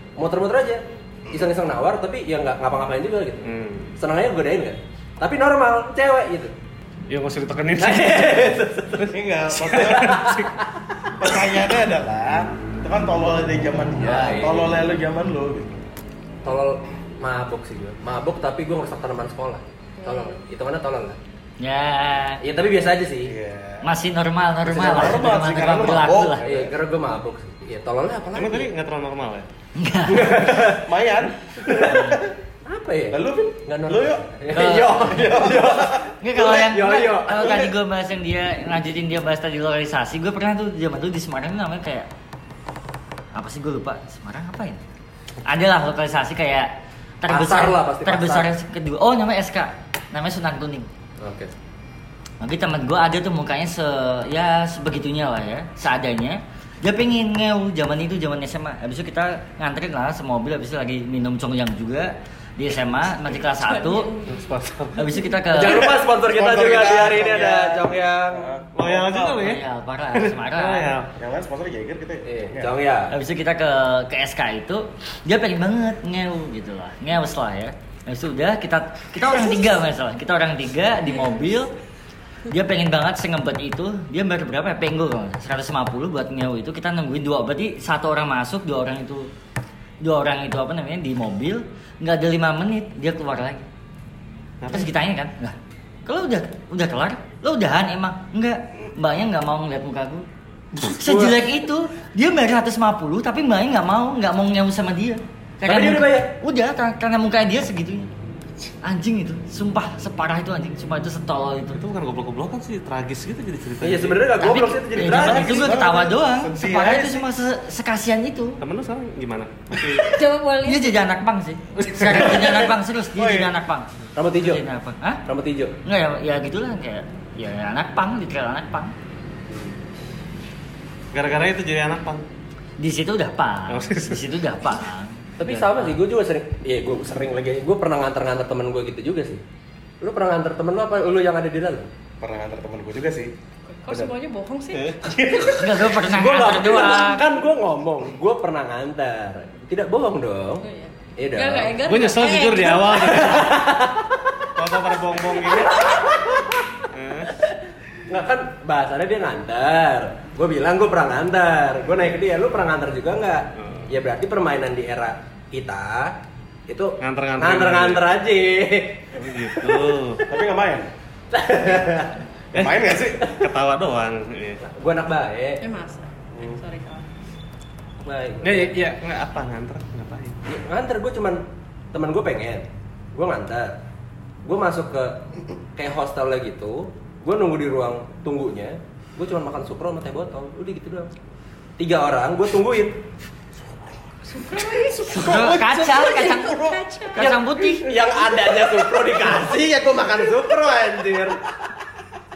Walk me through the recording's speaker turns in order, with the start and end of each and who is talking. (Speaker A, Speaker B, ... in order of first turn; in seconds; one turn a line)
Speaker A: 0.2-6.5
Speaker B: 3.4-3.9
Speaker B: 7.1-10.6
Speaker A: 7.8-9.1
Speaker C: 9.1-10.3
Speaker A: 9.7-10.6
Speaker C: 11.2-15.8
Speaker A: 14.0-14.8
Speaker A: 16.4-21.2
Speaker D: 20.0-20.4
Speaker E: 21.6-22.4
Speaker A: 22.4-23.3
Speaker C: 23.2-23.8
Speaker E: 23.8-26.4
Speaker A: 24.7-25.2
Speaker C: 24.8-26.7
Speaker A: 26.4-28.7
Speaker B: 28.3-29.5
Speaker E: 29.8-30.3
Speaker A: 30.1-30.9
Speaker C: 30.4-32.3
Speaker A: 31.6-32.1
Speaker A: 32.6-37.6
Speaker C: 33.1-34.2
Speaker E: 34.5-35.3
Speaker C: 35.0-36.1
Speaker E: 36.2-42.1
Speaker C: 37.3-37.7
Speaker E: 43.3-44.8
Speaker E: 45.4-46.7
Speaker E: 47.2-50.9
Speaker A: 47.2-48.5
Speaker A: 51.2-51.5
Speaker E: 52.4-64.1
Speaker D: 63.6-64.4
Speaker B: 64.3-65.1
Speaker E: 64.9-65.9
Speaker A: 65.5-68.5
Speaker C: 65.6-69.5
Speaker B: 68.7-71.1
Speaker E: 69.4-71.0
Speaker C: 71.1-72.7
Speaker A: 72.3-73.1
Speaker E: 73.1-81.7
Speaker E: 82.5-89.3
Speaker E: 90.0-93.6
Speaker B: 94.6-94.9
Speaker E: 94.7-100.2
Speaker A: 100.8-101.4
Speaker E: 100.8-108.1
Speaker A: 105.6-106.3
Speaker E: 108.8-111.8
Speaker B: 111.7-114.3
Speaker A: 113.8-115.7
Speaker E: 114.4-118.6
Speaker B: 115.0-115.3
Speaker C: 115.3-117.3
Speaker B: 118.6-120.2
Speaker D: 120.1-121.0
Speaker E: 120.6-123.8
Speaker C: 122.1-123.5
Speaker A: 124.1-124.6
Speaker E: 124.4-125.2
Speaker A: 125.3-125.8
Speaker E: 125.8-128.9
Speaker A: 129.5-129.8
Speaker B: 131.1-132.2
Speaker E: 132.8-136.0
Speaker B: 133.7-134.4
Speaker A: 135.4-139.4
Speaker A: 140.0-141.9
Speaker C: 142.2-143.3
Speaker D: 143.7-145.2
Speaker C: 145.0-145.8
Speaker E: 145.5-147.3
Speaker A: 145.9-150.6
Speaker D: 150.6-153.1
Speaker A: 151.2-151.8
Speaker B: 151.8-153.8
Speaker A: 152.9-154.1
Speaker B: 154.6-155.9
Speaker A: 155.6-156.6
Speaker B: 156.9-157.3
Speaker A: 158.1-166.2
Speaker B: 163.6-163.9
Speaker A: 166.7-170.3
Speaker B: 167.0-168.2
Speaker B: 169.2-170.2
Speaker C: 170.3-170.9
Speaker A: 171.3-172.1
Speaker C: 172.5-173.2
Speaker B: 172.5-174.6
Speaker A: 174.6-175.6
Speaker D: 175.6-177.1
Speaker A: 178.0-178.7
Speaker B: 178.4-180.4
Speaker A: 180.5-183.8
Speaker A: 184.4-185.2
Speaker A: 185.8-191.1
Speaker A: 191.8-193.0
Speaker D: 194.3-195.0
Speaker C: 194.5-199.1
Speaker E: 195.1-196.6
Speaker D: 195.9-197.4
Speaker E: 197.1-197.9
Speaker A: 197.8-201.4
Speaker C: 199.7-200.5